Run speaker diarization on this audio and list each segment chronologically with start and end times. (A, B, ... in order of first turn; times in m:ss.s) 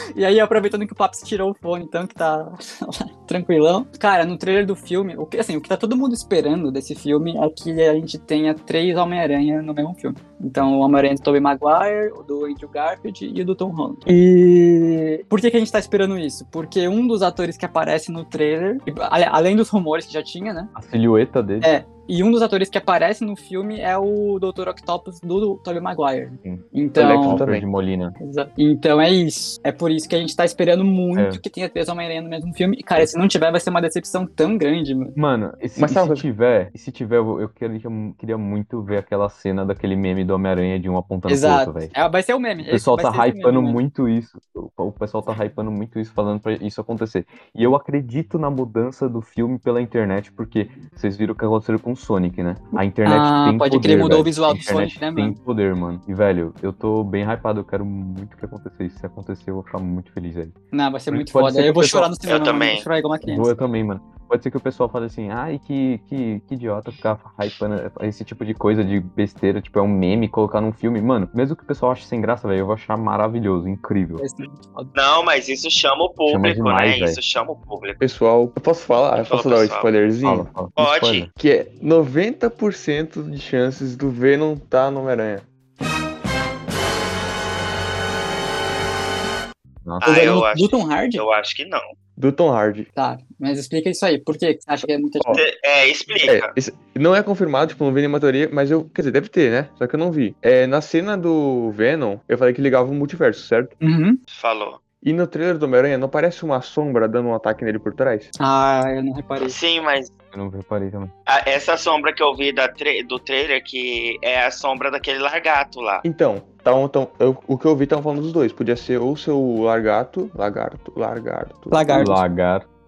0:00.1-0:20.7 A
0:20.7-0:21.7 B
0:21.6-0:27.4 A
0:27.0-0:27.7 C
0:27.2-0:28.1 B
0:28.2-0:35.2 A
0:31.1-0:31.4 B
0:35.1-0:41.9 B
0:35.8-0:36.2 C
0:41.3-0:43.8 A
0:42.7-1:00.5 B
0:53.0-0:55.4 A
1:00.7-1:03.5 A
1:01.1-1:02.1 B
1:02.3-1:02.8 D
1:03.2-1:14.2 B
1:14.2-1:14.9 A
1:14.9-1:18.0 D
1:16.3-1:17.2 B
1:18.0-1:20.5 C
1:19.2-1:19.9 D
1:20.2-1:21.3 B
1:20.7-1:21.3 D
1:21.4-1:25.4 C
1:30.0-1:31.8 D
1:30.0-1:31.2 A
1:32.2-1:32.9 C
1:32.9-1:35.4 A
1:35.3-1:36.5 D
1:36.2-1:43.7 C
1:43.8-1:44.2 A
1:44.3-1:44.8 D
1:45.0-1:48.3 C
1:48.4-1:49.6 A
1:49.4-1:50.1 D
1:50.3-1:51.1 B
1:51.3-1:56.0 D
1:56.0-2:02.1 C
2:01.7-2:02.2 A
2:01.9-2:02.6 B